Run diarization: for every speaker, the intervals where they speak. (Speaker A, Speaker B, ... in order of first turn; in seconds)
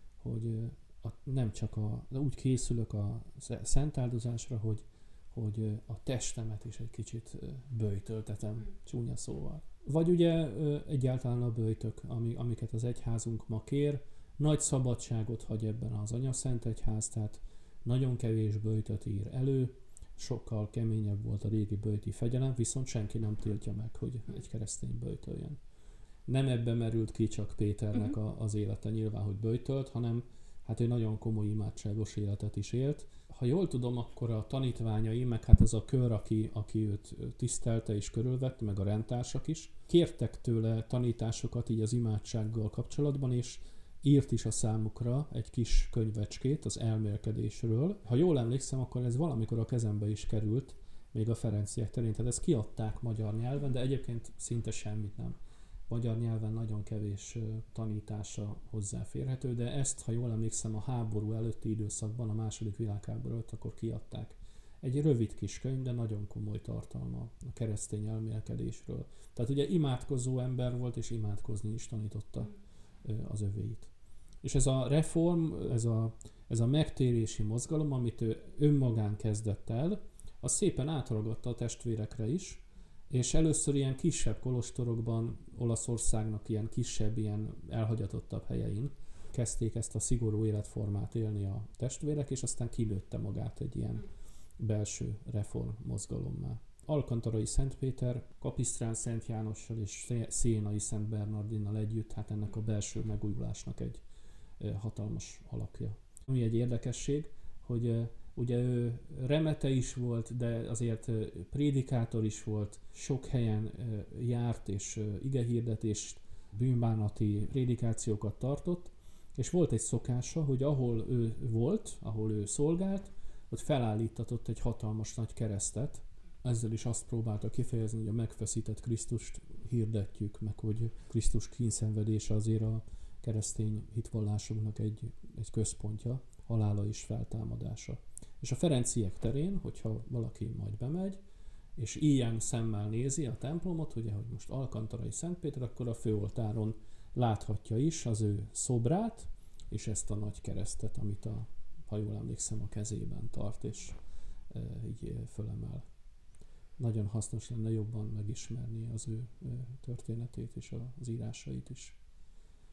Speaker A: 0.2-25.6, 26.3-55.4, 55.9-73.9, 74.4-94.1, 94.6-104.0, 104.6-141.2, 141.8-154.0, 154.5-155.9, 156.8-162.0